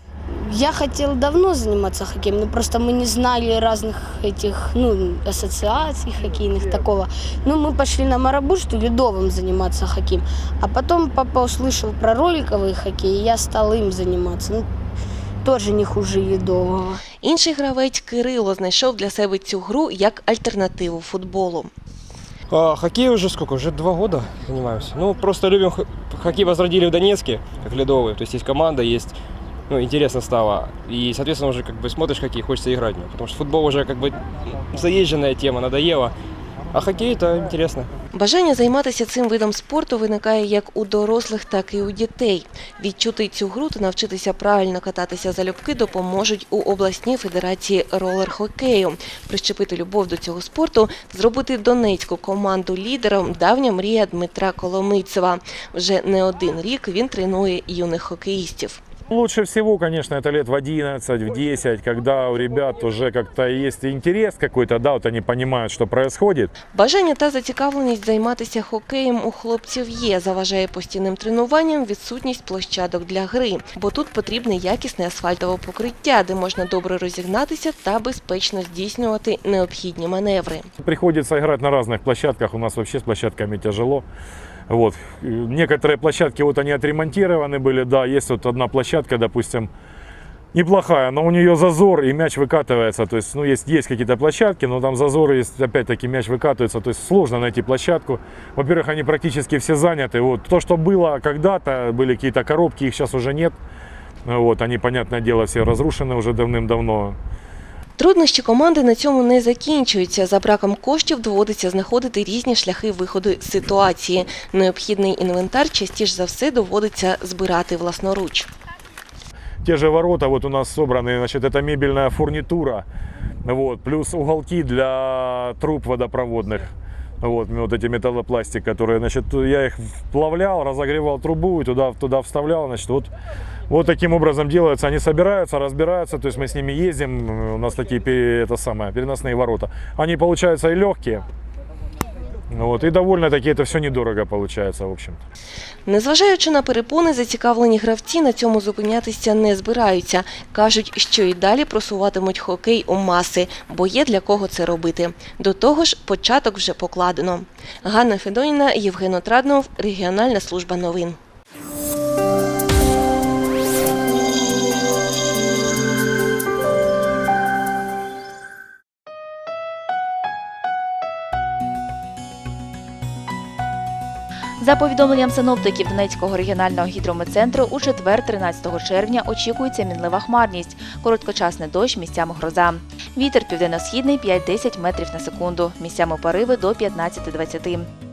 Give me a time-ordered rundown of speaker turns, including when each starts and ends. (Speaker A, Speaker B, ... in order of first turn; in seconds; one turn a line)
Speaker A: 0.5-14.7
Speaker A: 15.4-17.0
Speaker B: 17.2-21.7
Speaker C: 22.5-29.1
Speaker C: 29.7-36.1
Speaker C: 36.7-37.9
Speaker B: 38.1-58.8
Speaker D: 59.1-66.5
Speaker B: 66.7-80.7
Speaker D: 80.8-84.0
Speaker D: 84.7-89.7
Speaker D: 90.5-103.6
Speaker D: 104.3-107.2
Speaker B: 108.0-118.5
Speaker D: 119.6-122.8
Speaker D: 123.4-126.7
Speaker D: 127.2-133.1
Speaker D: 133.7-141.2
Speaker D: 142.5-145.2
Speaker B: 145.9-161.2
Speaker E: 174.6-187.9